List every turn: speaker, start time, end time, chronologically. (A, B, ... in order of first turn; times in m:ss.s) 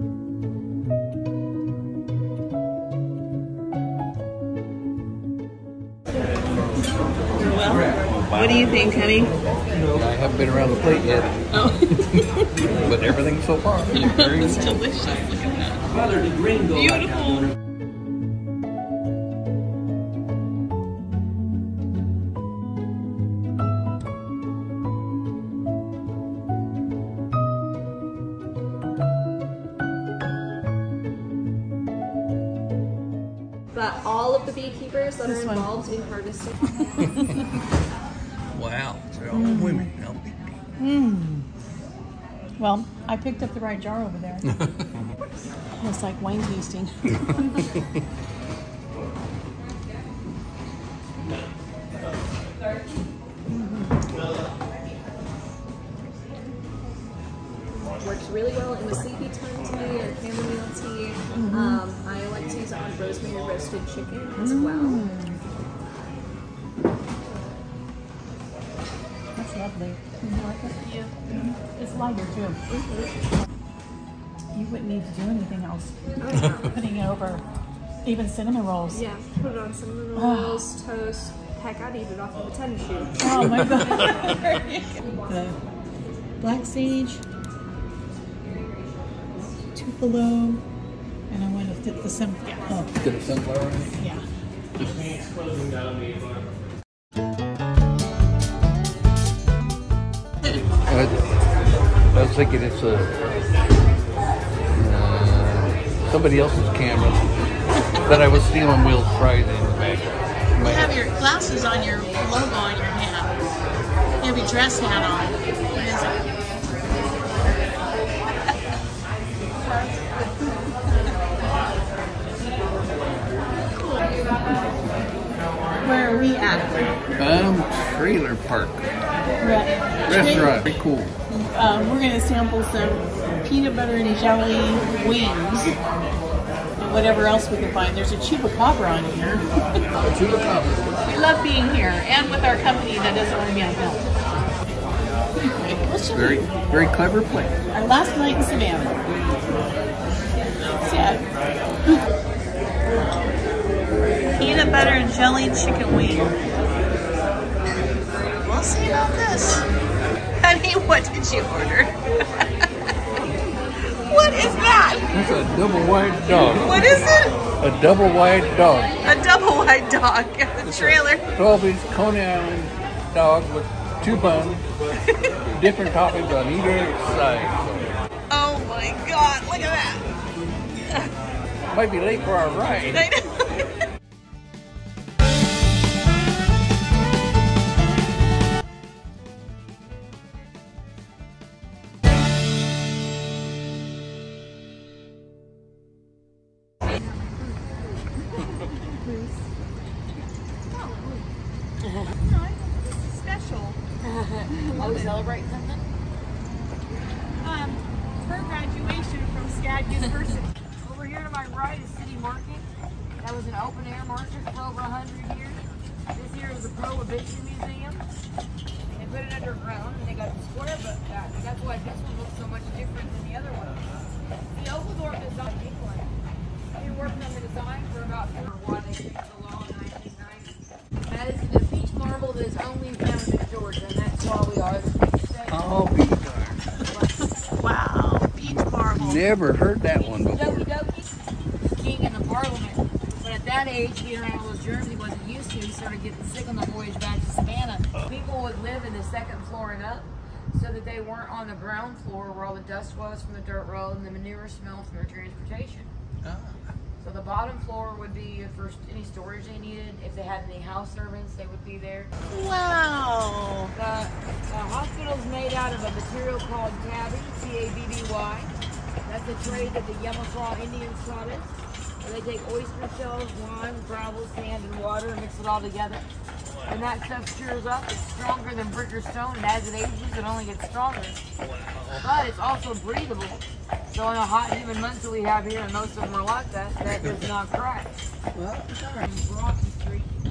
0:07.4-0:09.3 A
0:09.9-0:12.2 B
0:11.6-0:12.2 C
0:12.7-0:14.8 B
0:14.0-0:15.8 A
0:16.7-0:17.4 A
0:33.7-0:37.2 C
0:35.2-0:35.8 A
0:36.9-0:37.3 A
0:38.5-0:40.6 B
0:39.3-0:39.9 A
0:40.8-0:41.5 A
0:42.6-0:44.5 A
0:45.8-0:47.6 A
0:53.5-0:53.9 A
0:57.8-1:05.1 C
1:01.3-1:01.8 A
1:04.4-1:05.4 A
1:09.4-1:12.6 A
1:12.7-1:13.2 C
1:14.5-1:17.4 A
1:16.2-1:16.7 C
1:18.0-1:19.0 A
1:18.9-1:23.3 C
1:20.1-1:20.8 A
1:23.2-1:25.6 A
1:23.4-1:24.3 B
1:26.4-1:27.2 A
1:29.5-1:30.6 A
1:31.3-1:33.0 A
1:33.0-1:34.0 B
1:34.0-1:34.3 A
1:34.8-1:35.3 B
1:40.9-1:41.1 B
1:42.1-1:43.2 B
1:44.7-1:51.0 B
1:50.6-1:53.4 A
1:54.2-1:56.3 A
1:59.7-2:00.0 A
2:05.8-2:07.0 A
2:07.2-2:08.9 B
2:09.4-2:10.6 A
2:10.1-2:11.2 B
2:11.3-2:15.8 A
2:16.8-2:19.5 A
2:20.0-2:21.2 B
2:21.1-2:24.0 A
2:25.4-2:26.5 A
2:26.1-2:27.6 B
2:27.7-2:29.1 A
2:30.8-2:31.3 A
2:34.4-2:36.3 A
2:38.4-2:39.6 A
2:40.4-2:42.0 A
2:44.0-2:45.1 A
2:45.1-2:49.0 B
2:46.6-2:47.3 A
2:49.0-2:51.2 A
2:50.6-2:54.6 B
2:55.5-2:57.9 B
2:58.3-3:00.0 A
3:01.7-3:03.1 B
3:18.6-3:19.4 A
3:20.7-3:21.2 A
3:21.8-3:22.1 D
3:22.1-3:23.8 A
3:24.0-3:25.8 D
3:24.5-3:25.2 A
3:27.4-3:30.5 A
3:30.8-3:32.7 D
3:33.2-3:38.0 D
3:38.9-3:44.0 D
3:44.5-3:46.1 D
3:46.8-3:50.5 D
3:51.1-3:55.7 D
3:55.5-3:56.6 B
3:56.9-3:57.2 D
3:57.4-3:59.2 A
3:58.4-4:00.7 B
4:00.2-4:01.1 D
4:01.7-4:15.9 D
4:16.2-4:16.6 B
4:17.0-4:22.1 D
4:22.3-4:23.7 A
4:23.8-4:28.5 D
4:29.0-4:36.0 D
4:29.5-4:29.7 A
4:36.7-4:41.2 D
4:41.4-4:42.3 B
4:42.0-4:48.0 D
4:46.8-4:47.3 B
4:48.4-4:49.2 B
4:49.0-4:50.1 D